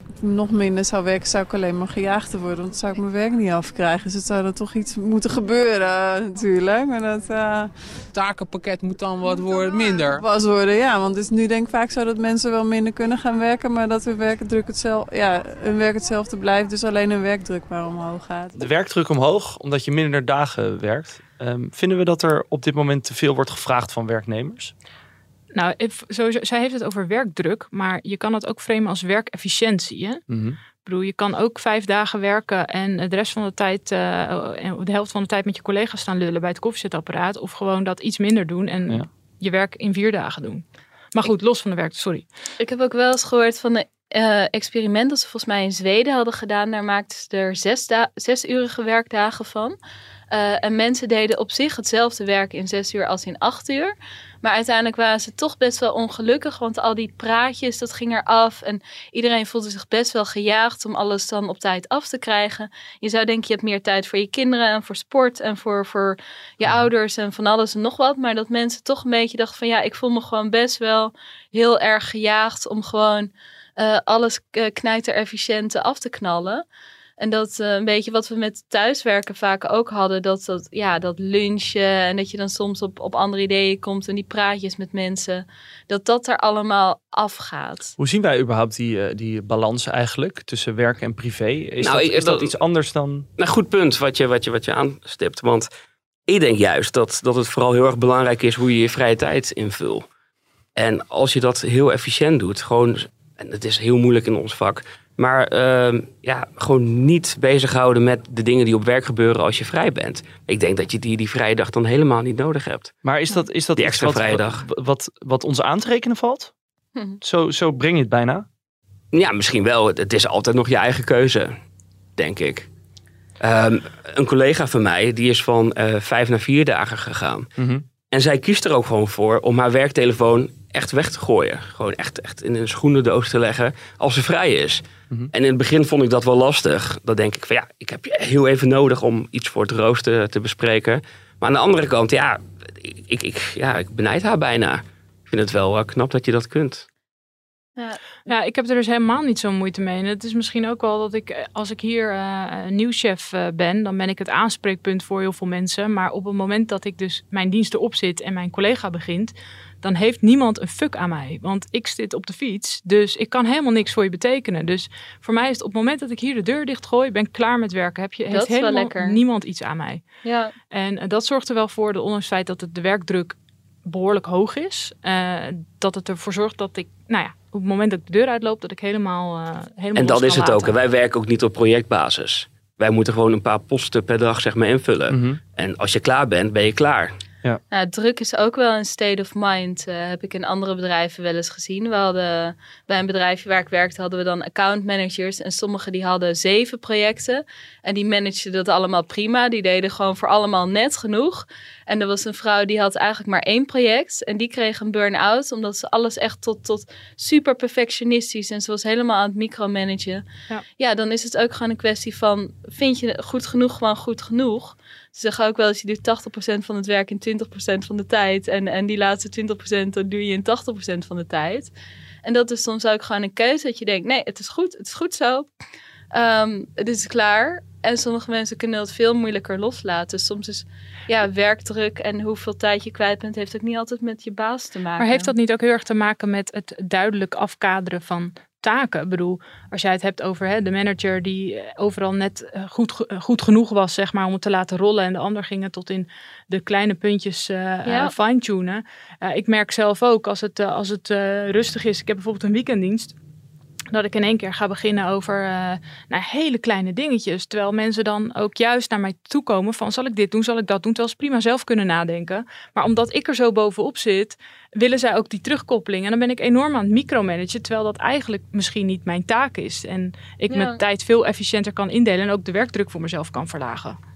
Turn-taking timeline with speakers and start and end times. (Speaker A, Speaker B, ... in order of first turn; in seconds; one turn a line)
Speaker A: 0.2-7.7
Speaker B: 8.1-10.2
Speaker A: 9.8-18.6
Speaker C: 18.6-24.7
Speaker D: 25.5-30.2
Speaker C: 30.3-30.6
Speaker D: 30.8-42.2
Speaker E: 42.6-49.8
Speaker E: 50.3-76.6
Speaker E: 77.2-87.9
Speaker C: 88.0-93.3
Speaker F: 91.8-92.5
Speaker F: 93.4-95.7
Speaker F: 96.3-100.0
Speaker F: 100.8-112.9
Speaker C: 113.0-116.5
Speaker F: 113.8-114.6
Speaker C: 117.2-118.5
Speaker F: 119.1-121.5
Speaker F: 122.2-122.7
Speaker F: 123.4-127.5
Speaker C: 127.6-127.8
Speaker F: 128.1-146.8
Speaker D: 148.2-170.0
Speaker E: 168.3-169.2
Speaker E: 170.2-170.5
Speaker D: 170.7-180.8
Speaker F: 179.9-187.1
Speaker C: 185.1-185.4
Speaker E: 187.7-210.2
Speaker E: 210.8-221.7
Speaker E: 222.2-225.5
Speaker E: 226.1-235.3
Speaker D: 235.0-253.1
Speaker E: 247.8-248.1
Speaker D: 253.9-274.0
Speaker E: 270.5-270.8